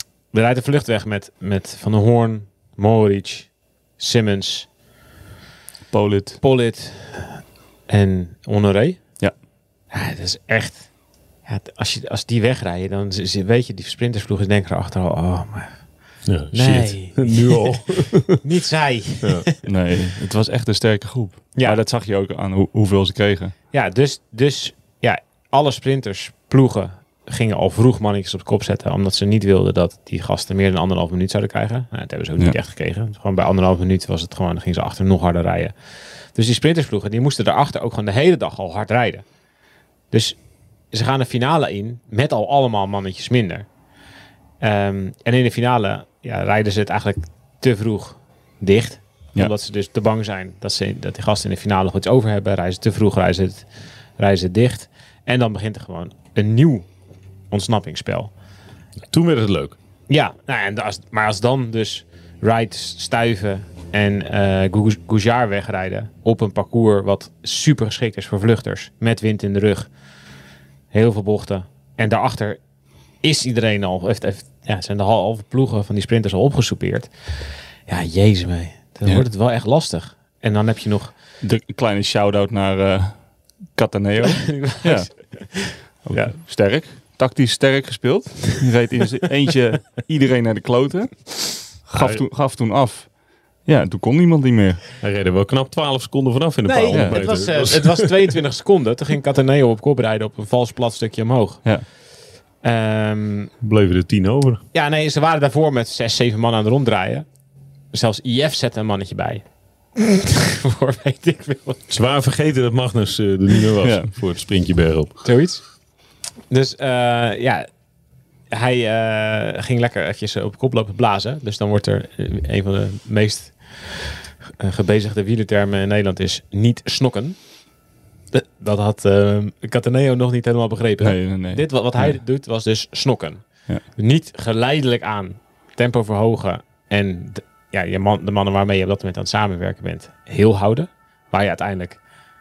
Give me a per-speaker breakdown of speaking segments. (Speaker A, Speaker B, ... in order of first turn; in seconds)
Speaker A: 0.3-4.7, 6.4-9.0, 9.9-10.9, 11.5-15.8, 16.5-19.6, 21.6-21.8, 23.7-35.7, 36.3-39.2, 40.1-40.4, 40.9-43.7, 44.6-53.7, 54.2-56.9, 57.5-58.3, 60.1-69.9, 70.9-72.6, 73.2-81.2, 84.2-86.3, 96.7-101.7, 102.6-103.5, 104.7-107.2, 107.9-109.5, 110.0-111.9, 115.2-115.6, 116.5-117.7, 118.5-127.4, 128.3-142.0
Speaker B: 5.9-6.4, 19.6-23.5, 81.4-83.2, 83.7-85.1, 86.0-93.1, 93.7-94.8, 96.9-97.3, 113.8-114.1, 131.0-132.2
Speaker C: 16.3-18.4, 19.2-19.5, 59.1-59.8, 92.0-92.2, 95.0-98.1, 103.6-104.6, 111.9-115.2